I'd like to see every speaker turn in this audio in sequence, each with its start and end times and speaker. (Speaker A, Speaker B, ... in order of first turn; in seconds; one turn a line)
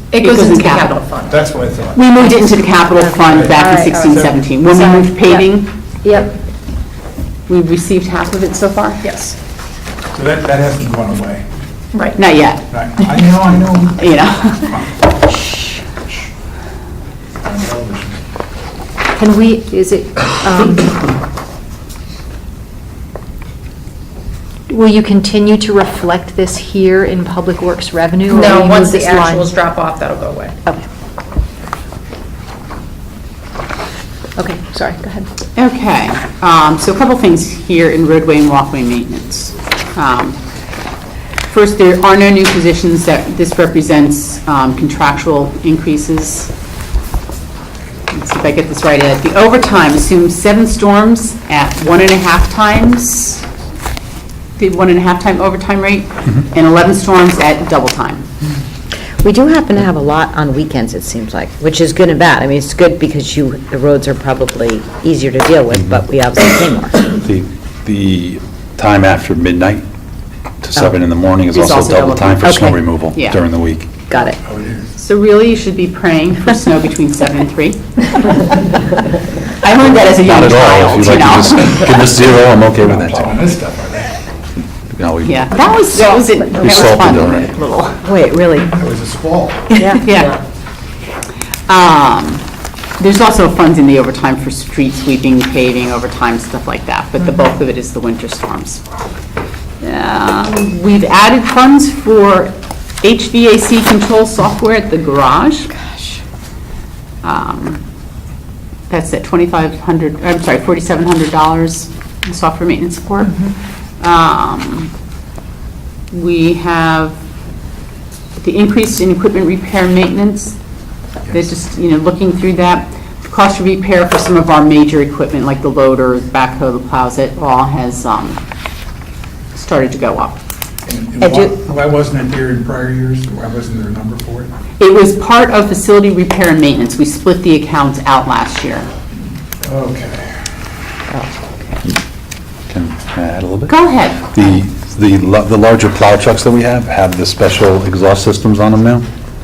Speaker A: 0.1-1.4
Speaker B: 0.1-1.1
Speaker C: 1.2-2.1
Speaker B: 1.9-5.7
Speaker D: 2.9-4.2
Speaker C: 3.2-4.4
Speaker D: 4.7-5.4
Speaker D: 6.0-6.3
Speaker B: 7.5-9.0
Speaker A: 9.0-9.3
Speaker C: 10.1-11.5
Speaker B: 12.1-12.7
Speaker C: 12.7-14.8
Speaker B: 14.0-14.8
Speaker C: 17.4-18.2
Speaker D: 19.1-21.0
Speaker D: 24.7-29.6
Speaker A: 28.3-30.6
Speaker D: 34.4-35.3
Speaker B: 35.5-40.4
Speaker B: 41.5-46.5
Speaker B: 48.1-53.4
Speaker B: 54.6-58.3
Speaker E: 59.1-67.0
Speaker F: 65.8-66.0
Speaker F: 67.2-69.8
Speaker F: 70.6-73.9
Speaker B: 71.5-72.6
Speaker E: 72.4-72.8
Speaker B: 73.1-73.4
Speaker E: 74.1-74.4
Speaker C: 74.4-74.8
Speaker B: 75.0-78.5
Speaker B: 79.6-82.0
Speaker F: 80.1-83.3
Speaker C: 82.8-84.2
Speaker F: 84.9-87.5
Speaker B: 85.2-88.0
Speaker A: 86.0-87.0
Speaker E: 88.0-88.8
Speaker C: 88.7-89.8
Speaker E: 89.7-90.3
Speaker B: 90.0-90.4
Speaker B: 91.7-92.4
Speaker B: 93.0-98.8
Speaker B: 99.8-105.7
Speaker E: 105.8-106.2
Speaker B: 107.2-107.8
Speaker B: 108.9-114.9
Speaker B: 116.1-117.1
Speaker B: 118.4-120.5
Speaker B: 121.3-128.4
Speaker B: 129.5-130.4
Speaker C: 130.8-134.5
Speaker E: 131.2-131.5
Speaker B: 134.8-138.9
Speaker C: 139.6-140.3
Speaker E: 141.1-141.5
Speaker F: 142.7-149.0
Speaker B: 143.7-144.6